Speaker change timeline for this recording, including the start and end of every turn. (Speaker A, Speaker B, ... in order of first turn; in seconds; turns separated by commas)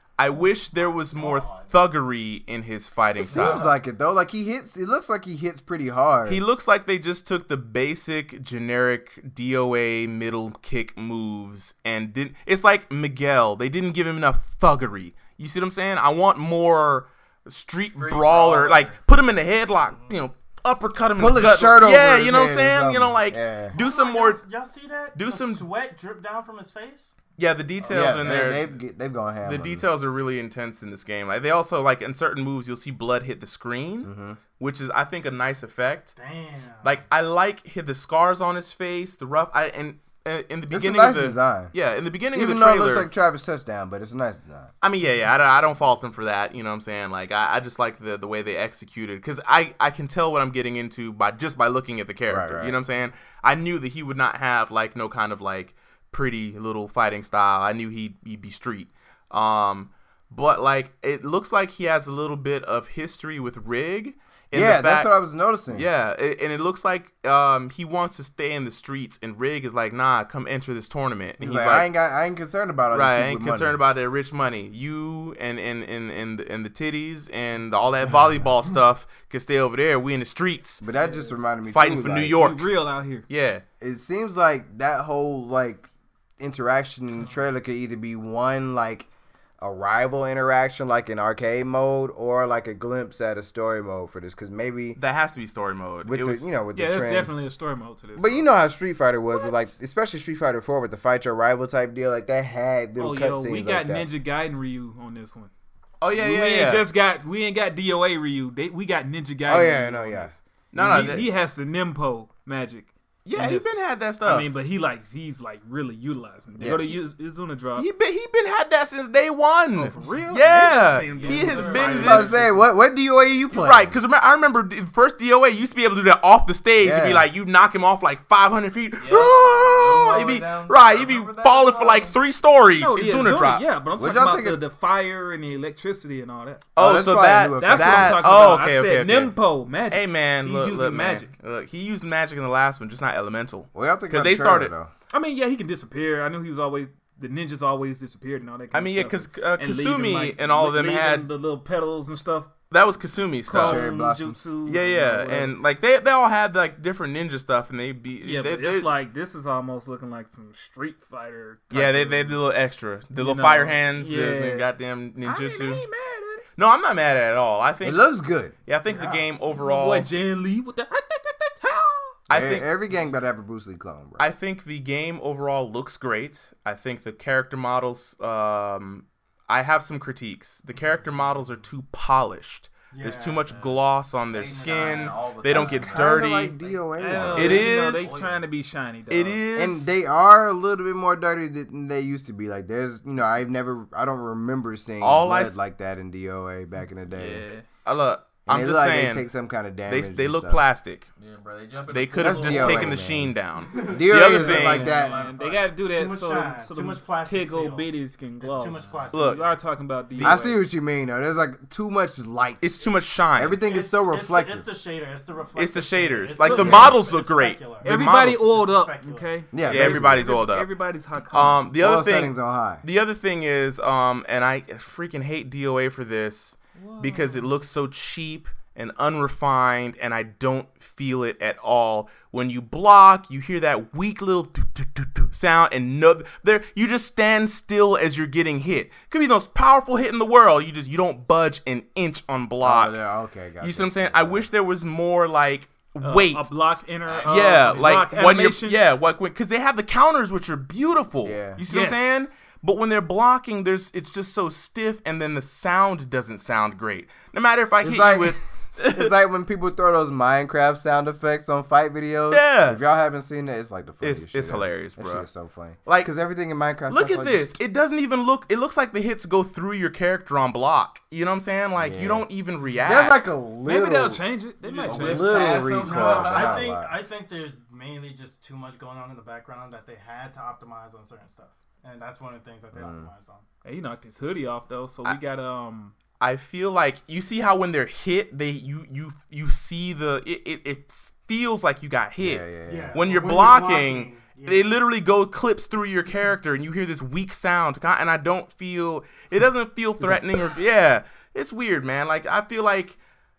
Speaker A: 0.2-3.7, Speaker B: 1.1-1.5, Speaker C: 1.1-1.7, Speaker C: 3.2-3.8, Speaker D: 3.2-6.4, Speaker A: 6.2-24.4, Speaker C: 17.9-19.0, Speaker C: 19.9-20.2, Speaker D: 21.2-23.8, Speaker B: 23.7-27.1, Speaker A: 25.1-25.6, Speaker A: 27.4-28.8, Speaker D: 27.9-29.9, Speaker C: 27.9-28.2, Speaker A: 29.4-36.2, Speaker D: 34.0-34.4, Speaker B: 36.2-37.0, Speaker A: 36.8-43.1, Speaker D: 40.7-41.7, Speaker D: 42.3-44.7, Speaker A: 44.8-65.1, Speaker D: 52.3-52.8, Speaker D: 64.5-65.9, Speaker A: 65.7-71.9, Speaker D: 71.4-73.8, Speaker A: 72.9-80.8, Speaker D: 80.8-82.4, Speaker A: 81.7-82.7, Speaker E: 82.3-83.2, Speaker A: 83.3-83.6, Speaker D: 83.8-89.1, Speaker D: 89.6-95.0, Speaker A: 95.0-96.5, Speaker D: 96.0-97.3, Speaker E: 96.7-98.4, Speaker D: 98.2-104.1, Speaker E: 103.0-105.5, Speaker A: 106.0-106.9, Speaker E: 106.1-117.9, Speaker D: 109.5-111.2, Speaker A: 110.7-111.3, Speaker A: 113.2-114.5, Speaker D: 116.6-116.9, Speaker A: 117.8-122.4, Speaker E: 119.7-122.7, Speaker C: 121.1-122.3, Speaker D: 122.0-124.0, Speaker A: 123.5-133.6, Speaker D: 126.8-127.2, Speaker C: 129.0-132.2, Speaker E: 132.8-136.7, Speaker D: 134.0-134.6, Speaker A: 136.7-139.3, Speaker D: 136.8-138.3, Speaker E: 137.6-141.3, Speaker A: 139.9-144.7, Speaker D: 143.7-144.9, Speaker E: 145.1-152.5, Speaker A: 148.7-151.3, Speaker A: 152.7-153.9, Speaker E: 153.4-155.5, Speaker D: 153.5-154.5, Speaker A: 154.6-158.9, Speaker E: 158.2-162.4, Speaker A: 161.7-165.8, Speaker E: 163.1-164.7, Speaker E: 165.2-166.4, Speaker A: 166.6-168.1, Speaker D: 167.8-168.5, Speaker A: 168.7-170.1, Speaker B: 168.9-169.3, Speaker E: 169.4-172.2, Speaker A: 172.3-172.7, Speaker D: 172.3-174.2, Speaker A: 174.2-186.6, Speaker B: 182.9-183.7, Speaker C: 184.3-188.4, Speaker D: 185.4-187.7, Speaker E: 187.0-189.4, Speaker A: 187.3-188.1, Speaker A: 189.1-189.9, Speaker D: 189.6-197.5, Speaker A: 195.0-195.6, Speaker E: 197.1-197.7, Speaker A: 197.8-199.3, Speaker D: 198.5-200.6, Speaker A: 199.8-201.1, Speaker C: 201.2-203.0, Speaker A: 201.9-204.9, Speaker D: 202.2-203.3, Speaker B: 203.6-209.6, Speaker D: 203.9-205.2, Speaker E: 204.4-210.6, Speaker C: 204.8-205.7, Speaker C: 208.7-209.1, Speaker A: 209.1-209.4, Speaker A: 210.1-210.4, Speaker D: 210.2-212.8, Speaker A: 212.6-213.6, Speaker D: 213.3-214.7, Speaker B: 213.6-219.4, Speaker A: 215.6-218.4, Speaker E: 216.4-216.9, Speaker D: 216.6-216.9, Speaker E: 217.8-221.7, Speaker D: 219.5-220.3, Speaker A: 219.6-220.7, Speaker A: 221.3-243.0, Speaker D: 221.8-222.8, Speaker E: 226.8-227.4, Speaker D: 242.6-244.5, Speaker A: 243.6-246.5, Speaker E: 246.0-248.8, Speaker C: 247.0-248.0, Speaker A: 247.2-259.1, Speaker D: 251.2-251.6, Speaker E: 251.6-252.3, Speaker D: 257.8-267.6, Speaker A: 262.3-262.8, Speaker A: 264.0-265.3, Speaker A: 265.9-266.1, Speaker A: 266.9-273.3, Speaker D: 271.8-272.2, Speaker D: 272.8-274.2, Speaker E: 273.6-275.7, Speaker B: 274.6-283.4, Speaker C: 274.8-276.8, Speaker D: 274.8-276.9, Speaker D: 282.7-283.1, Speaker E: 283.6-285.9, Speaker A: 286.2-303.0, Speaker D: 292.2-293.0, Speaker B: 292.7-294.8